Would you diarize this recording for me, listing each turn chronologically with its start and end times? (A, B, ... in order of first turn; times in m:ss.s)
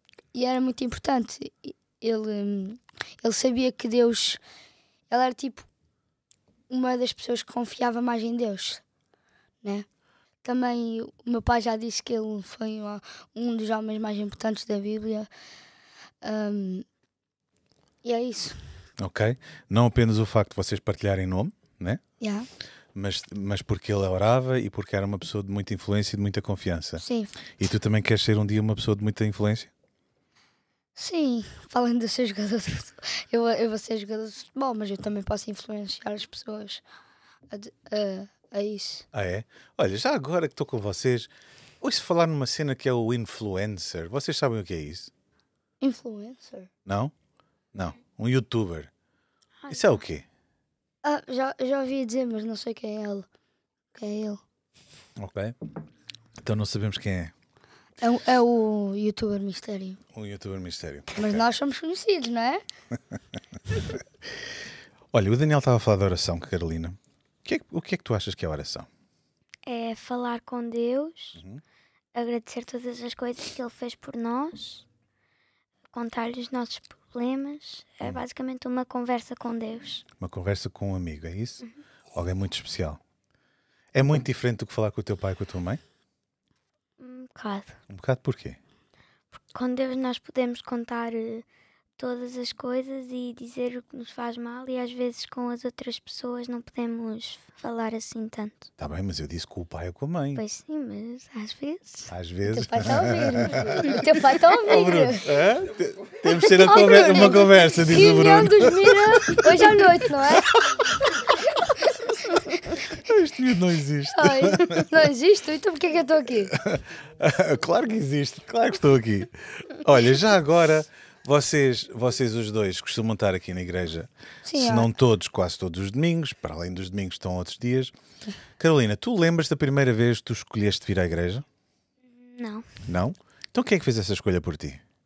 0:00.3-0:04.4 A
0:05.1-0:05.7 A
0:06.7-0:08.8 A
0:10.4-0:15.3 A
0:16.2-0:16.8 A
0:18.0-0:18.6 A
0:19.0-0:22.0 B
0:22.2-0:22.5 A
0:22.9-0:27.0 B
0:27.0-0:27.3 A
0:27.6-0:29.7 B
0:31.0-0:36.8 A
0:37.5-0:39.0 A
0:39.1-0:45.1 B
0:45.8-0:46.7 A
0:46.8-0:47.1 B
0:47.7-0:48.9 B
0:49.6-0:50.0 C
0:49.7-0:50.2 B
0:51.0-0:53.2 A
0:53.9-0:54.4 A
0:55.2-0:55.5 B
0:56.4-0:57.3 B
0:58.0-1:00.0 A
1:00.1-1:01.4 B
1:01.1-1:02.6 A
1:05.1-1:08.9 B
1:09.6-1:11.4 C
1:11.4-1:11.6 B
1:12.1-1:14.8 C
1:15.9-1:20.0 C
1:20.2-1:23.0 B
1:23.9-1:25.8 B
1:27.0-1:27.8 C
1:27.9-1:28.6 B
1:29.4-1:31.4 C
1:32.0-1:38.7 C
1:38.8-1:40.4 B
1:40.3-1:42.1 C
1:42.1-1:48.9 B
1:42.5-1:45.3 A
1:46.6-1:50.6 A
1:52.0-1:52.8 A
1:52.9-1:54.9 B
1:54.1-1:56.5 A
1:56.5-2:07.9 B
2:04.4-2:04.9 A
2:08.6-2:11.4 B
2:12.2-2:12.6 C
2:12.9-2:14.8 B